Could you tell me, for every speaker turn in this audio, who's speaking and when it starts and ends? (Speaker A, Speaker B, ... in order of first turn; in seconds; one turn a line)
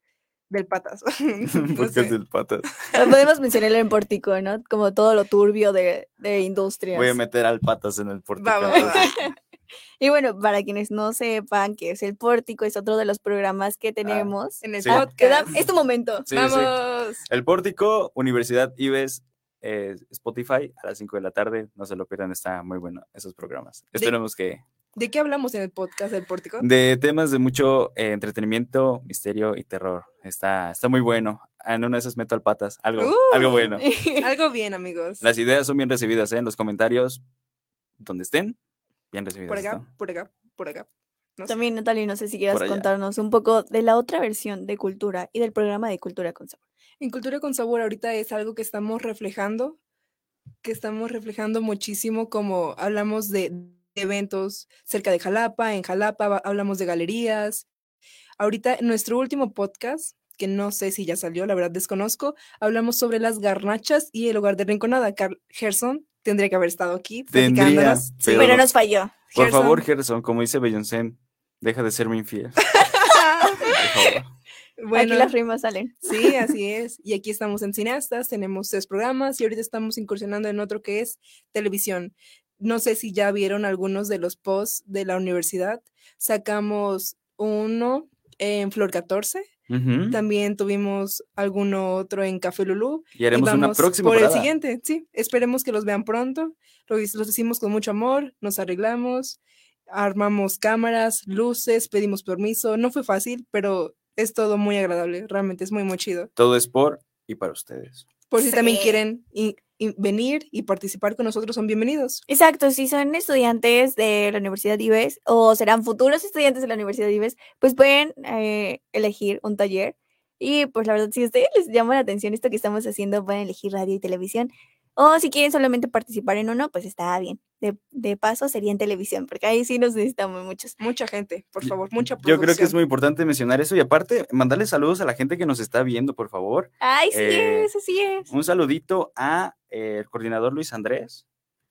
Speaker A: 0.5-2.1
Speaker B: 1.7-2.9
Speaker C: 3.0-7.2
Speaker B: 6.9-9.1
Speaker A: 8.4-9.1
Speaker C: 8.7-9.3
Speaker C: 10.0-16.3
Speaker B: 14.0-15.1
Speaker A: 14.6-15.6
Speaker B: 16.3-24.6
Speaker A: 16.3-17.2
Speaker A: 25.0-26.6
Speaker B: 26.6-33.9
Speaker A: 33.0-35.2
Speaker C: 33.8-34.2
Speaker B: 35.2-37.2
Speaker B: 38.0-38.6
Speaker B: 39.1-39.9
Speaker A: 39.5-41.5
Speaker C: 41.5-46.6
Speaker B: 42.5-42.9
Speaker A: 47.0-49.8
Speaker A: 50.6-57.7
Speaker A: 58.4-68.7
Speaker B: 67.3-68.7
Speaker C: 68.3-69.2
Speaker A: 69.3-69.8
Speaker B: 69.4-72.7
Speaker A: 72.8-73.8
Speaker B: 73.7-74.3
Speaker A: 74.8-75.3
Speaker C: 74.9-76.3
Speaker A: 76.0-89.5
Speaker B: 89.7-90.2
Speaker A: 90.1-106.3
Speaker B: 93.2-94.5
Speaker B: 106.4-108.0
Speaker A: 108.3-112.2
Speaker C: 108.4-109.0
Speaker C: 112.3-130.8
Speaker A: 130.8-132.7
Speaker B: 132.2-137.7
Speaker C: 136.8-138.3
Speaker B: 138.3-141.2